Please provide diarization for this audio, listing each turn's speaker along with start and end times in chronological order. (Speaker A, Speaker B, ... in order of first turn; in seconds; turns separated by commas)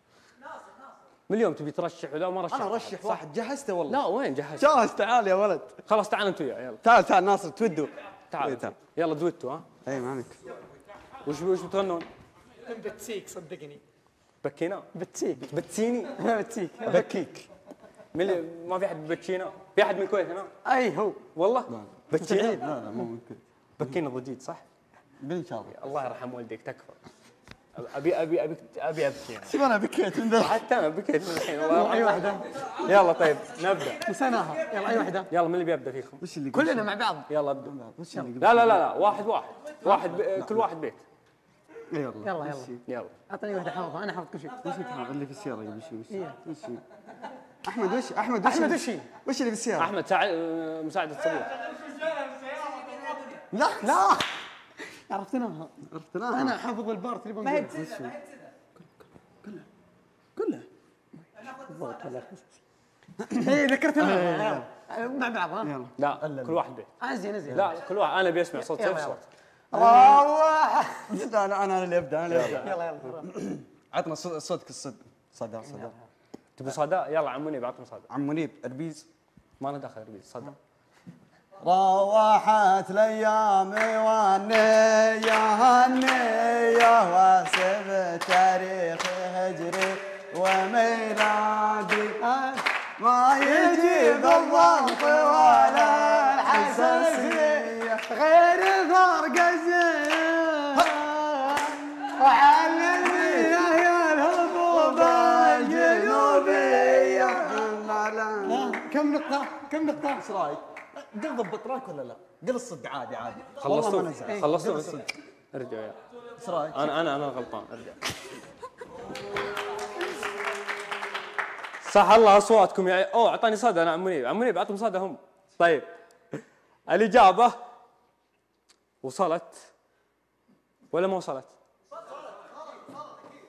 Speaker A: 1.3-3.2, Speaker B: 2.5-4.0, Speaker A: 3.9-4.7, Speaker B: 4.6-5.8, Speaker A: 5.9-6.8, Speaker B: 6.8-8.8, Speaker A: 8.3-9.7, Speaker B: 9.8-10.4, Speaker A: 11.2-12.1, Speaker C: 12.7-13.8, Speaker A: 14.4-16.2, Speaker C: 14.9-15.5, Speaker C: 16.2-17.3, Speaker A: 16.8-17.4, Speaker A: 18.1-20.5, Speaker C: 20.6-21.2, Speaker A: 21.3-22.6, Speaker B: 21.7-24.0, Speaker C: 22.3-22.6, Speaker A: 23.8-24.6, Speaker B: 25.2-25.9, Speaker A: 25.7-27.0, Speaker A: 27.8-29.6, Speaker B: 29.4-30.7, Speaker A: 30.3-34.0, Speaker C: 31.6-32.5, Speaker C: 34.0-35.3, Speaker A: 34.9-36.2, Speaker B: 36.2-37.0, Speaker C: 36.5-37.3, Speaker A: 37.3-37.7, Speaker B: 37.6-39.0, Speaker A: 38.4-41.0, Speaker B: 39.9-40.7, Speaker B: 41.9-42.8, Speaker C: 42.2-42.8, Speaker A: 42.9-43.1, Speaker C: 43.3-44.6, Speaker B: 44.6-46.8, Speaker C: 46.1-46.4, Speaker B: 47.6-49.9, Speaker C: 48.4-49.1, Speaker A: 49.8-51.6, Speaker B: 53.5-54.2, Speaker A: 53.8-54.1, Speaker C: 55.1-55.7, Speaker B: 55.8-56.6, Speaker C: 56.3-58.1, Speaker B: 57.5-58.2, Speaker B: 60.4-60.7, Speaker C: 61.4-62.5, Speaker B: 63.2-64.7, Speaker C: 63.2-65.8, Speaker B: 65.6-66.6, Speaker A: 66.0-66.9, Speaker C: 67.0-67.8, Speaker A: 67.5-69.3, Speaker C: 68.6-69.2, Speaker C: 69.7-71.1, Speaker B: 69.7-70.3, Speaker B: 71.1-76.0, Speaker C: 72.3-73.3, Speaker A: 76.6-78.1, Speaker B: 78.1-79.1, Speaker A: 79.6-80.6, Speaker B: 81.6-92.2, Speaker C: 92.2-92.7, Speaker B: 93.0-98.0, Speaker C: 93.4-107.7, Speaker B: 100.8-108.8, Speaker C: 108.5-110.2, Speaker B: 110.0-115.1, Speaker A: 113.6-116.0, Speaker B: 116.4-116.9, Speaker A: 116.7-118.0, Speaker A: 121.8-125.9, Speaker A: 126.9-127.6, Speaker A: 129.0-129.7, Speaker A: 130.9-131.6